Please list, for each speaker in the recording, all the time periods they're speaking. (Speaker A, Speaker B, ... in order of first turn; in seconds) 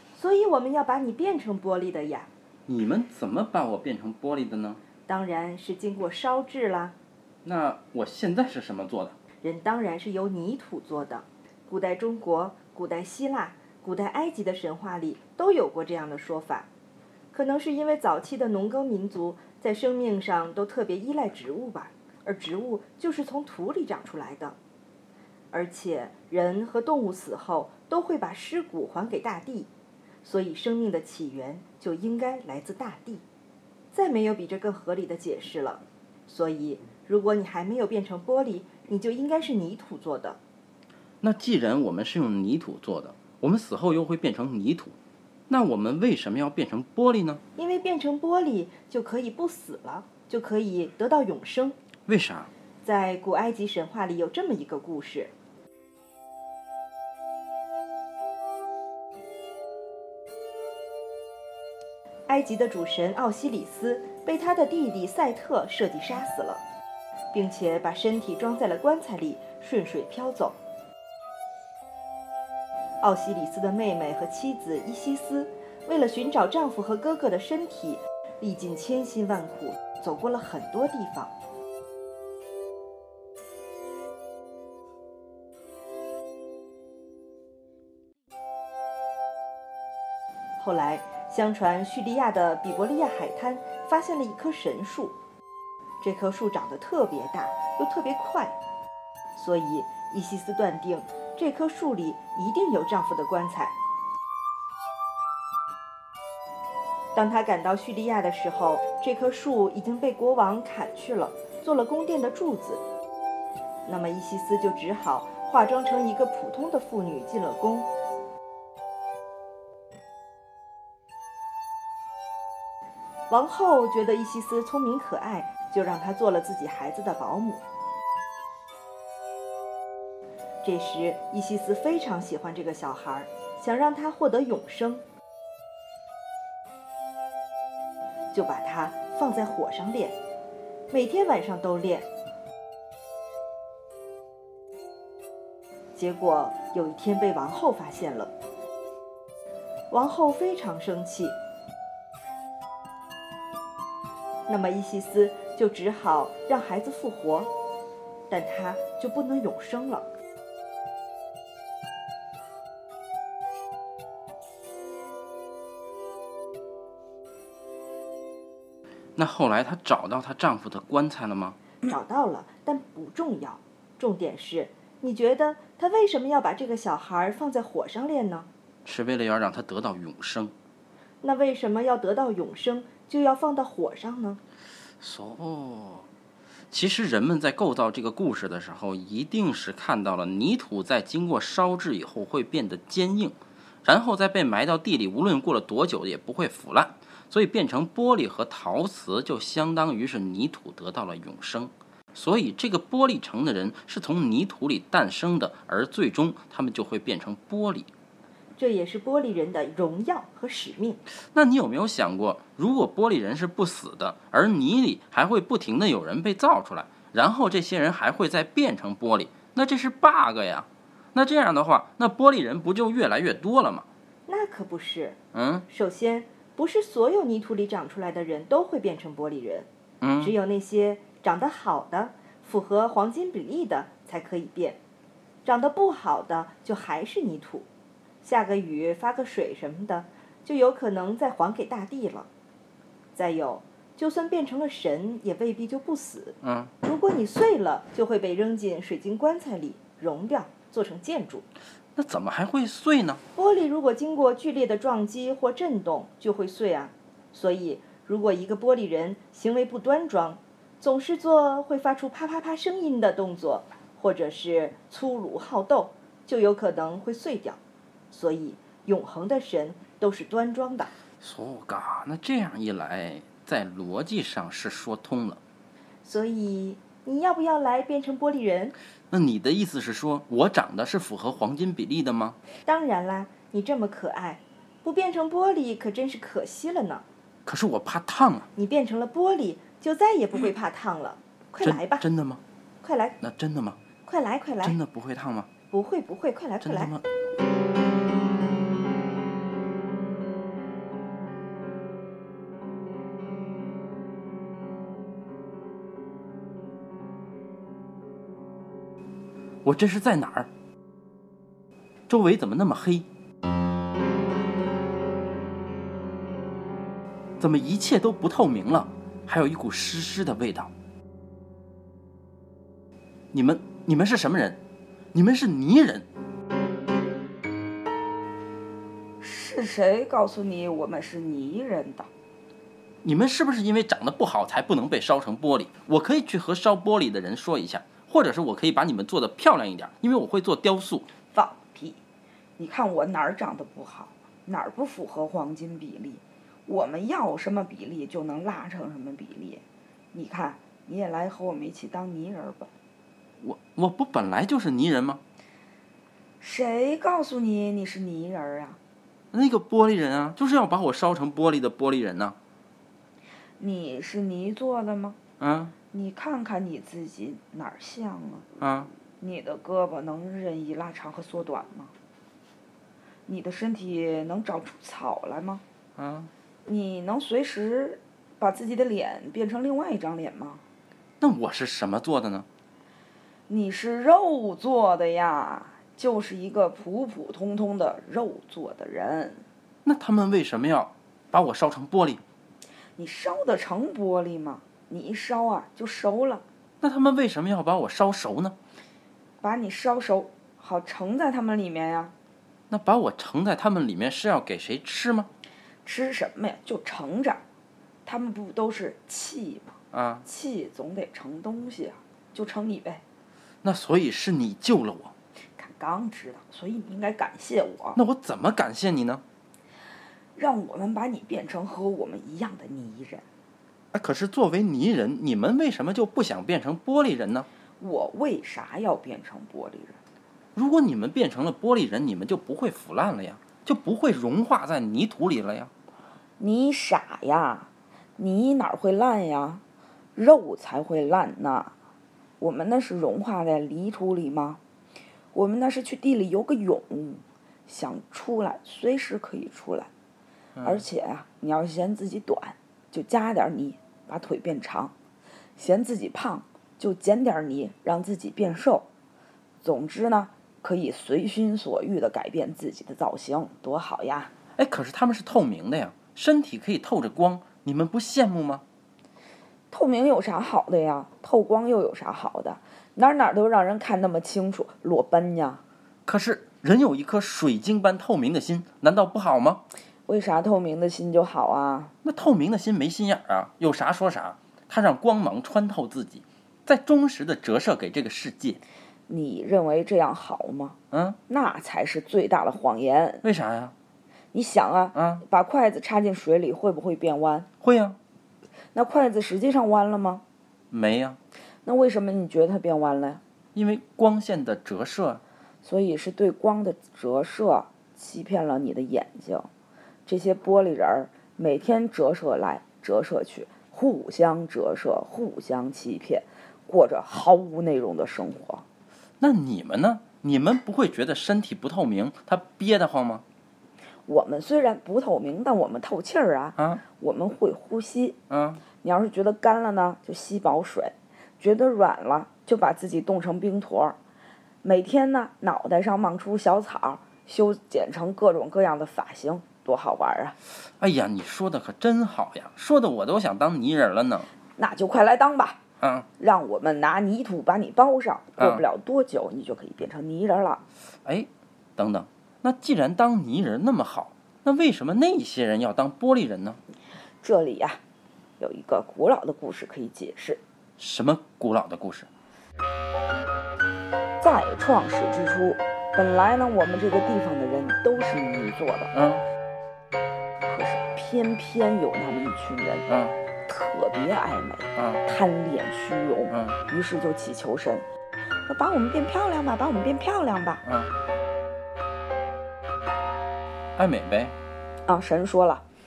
Speaker A: 0.1-2.3, 5.1-6.9, 9.4-16.7, 17.3-24.6, 25.5-29.7, 30.2-33.2, 33.9-40.4, 47.5-51.8, 52.8-55.3, 62.3-66.6, 67.3-70.6, 73.0-81.3, 90.6-95.2, 96.0-98.5, 99.3-103.7, 107.1-112.8, 113.8-117.9, 123.3-127.6, 130.6-135.0, 138.3-140.2, 140.9-142.1, 145.9-148.3, 149.9-151.4, 154.5-157.5, 158.3-160.1, 171.8-178.5, 181.2-184.4, 208.6-211.0, 224.3-225.2, 225.7-229.7, 230.2-234.8, 235.4-237.7, 238.2-242.3, 243.1-251.4, 253.3-267.6, 268.1-270.9, 276.0-278.7, 282.6-287.0, 288.5-292.1, 292.8-293.2, 294.1-294.8, 295.7-296.9
Speaker B: 2.7-4.8, 7.4-9.2, 41.2-45.0, 45.5-47.4, 52.1-52.5, 169.2-171.6, 178.8-180.5, 185.0-186.1, 186.7-207.9, 211.3-223.9, 225.3-225.7, 230.0-230.3, 246.4-246.7, 251.9-253.2, 271.2-275.4, 279.1-282.4, 287.4-288.5, 291.6-292.4, 293.2-293.8, 294.6-295.5, 296.6-297.0, 309.6-310.5, 312.1-313.1, 317.4-320.7, 323.3-324.6, 325.1-326.1, 333.0-341.1, 353.4-355.2, 359.3-362.4, 365.4-365.7, 368.6-368.9, 376.0-376.3, 381.2-382.5, 389.8-392.2, 396.8-398.6, 402.7-405.3, 409.9-410.2, 413.6-415.1, 417.9-419.2, 423.9-427.5, 430.5-435.7, 450.6-450.8, 464.6-468.6, 476.1-479.6, 482.0-488.6, 490.9-491.2, 493.2-493.7, 494.9-495.2, 497.6-498.0, 500.7-501.2, 503.5-505.2, 519.2-523.2, 526.6-526.8, 528.3-528.6, 540.6-544.3, 545.8-546.0, 548.4-548.6, 551.0-556.6, 560.8-562.1, 568.9-569.2, 572.9-573.1, 574.8-575.0, 576.3-576.6, 580.6-580.9, 583.8-584.3
Speaker C: 329.2-332.1, 341.3-342.0, 342.6-352.7, 356.4-358.8, 363.6-365.2, 365.9-368.5, 369.2-371.9, 373.2-375.6, 376.6-380.6, 383.5-389.4, 393.0-396.4, 399.4-402.1, 405.8-407.4, 408.0-413.0, 415.6-418.0, 420.4-423.2, 427.8-430.0, 436.4-439.6, 440.1-441.7, 442.4-444.6, 445.3-449.9, 450.6-454.9, 455.6-458.9, 459.6-464.3, 469.7-475.6, 480.1-481.9, 489.1-490.8, 491.3-493.2, 494.3-497.5, 498.7-500.2, 501.6-503.2, 505.6-509.5, 510.1-518.6, 524.0-528.2, 528.8-534.0, 534.6-540.4, 544.5-545.6, 546.2-550.6, 557.2-557.8, 558.4-560.4, 564.2-568.9, 570.4-572.9, 573.4-577.9, 578.5-580.6, 584.9-585.6